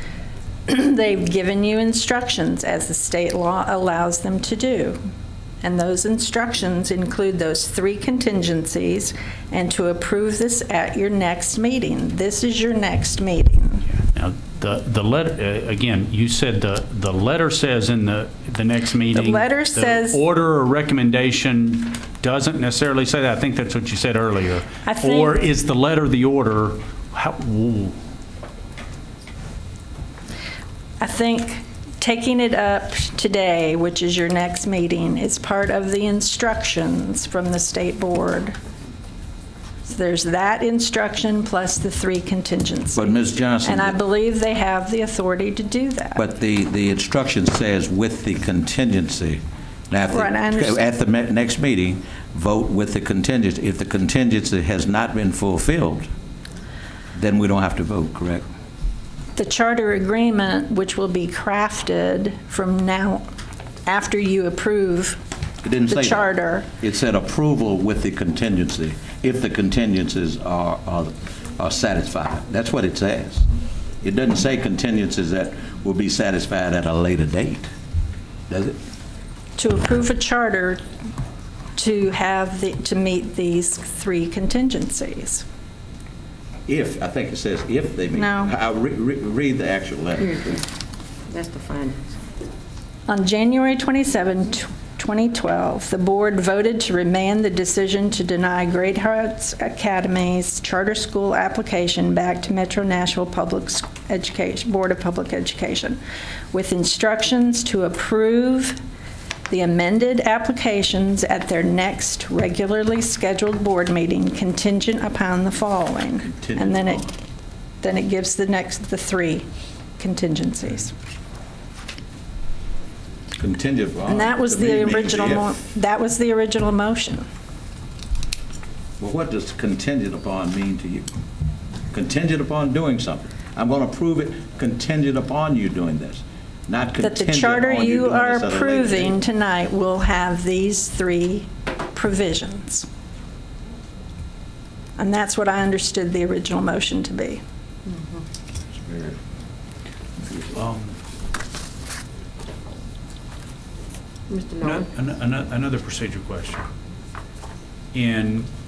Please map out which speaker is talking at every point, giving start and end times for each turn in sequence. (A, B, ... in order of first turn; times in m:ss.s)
0:00.7-0:05.0 A
0:05.6-0:13.9 A
0:14.1-0:28.0 B
0:19.1-0:20.2 A
0:24.8-0:25.4 A
0:31.0-0:38.5 A
0:39.8-0:46.2 A
0:42.9-0:43.9 C
0:46.2-0:56.1 C
0:50.1-0:50.8 A
0:57.2-0:58.4 C
0:59.4-1:03.2 A
1:03.8-1:05.2 A
1:05.6-1:13.4 C
1:05.9-1:06.7 A
1:14.0-1:17.7 C
1:18.5-1:18.8 C
1:19.6-1:20.8 A
1:21.8-1:25.4 A
1:26.7-1:30.3 C
1:28.1-1:28.5 A
1:30.2-1:30.6 D
1:31.3-1:32.1 D
1:33.1-1:46.0 A
1:46.5-1:48.8 A
1:49.5-1:57.1 A
1:56.2-1:57.1 C
1:57.8-1:59.5 A
2:00.0-2:00.9 A
2:03.4-2:05.5 C
2:04.1-2:07.2 A
2:09.0-2:11.1 C
2:11.9-2:19.2 C
2:17.0-2:22.8 A
2:25.0-2:27.4 A
2:27.8-2:28.2 D
2:28.9-2:29.2 C
2:30.5-2:31.0 B
2:34.3-2:34.9 D
2:34.6-2:36.7 B
2:37.9-2:38.5 B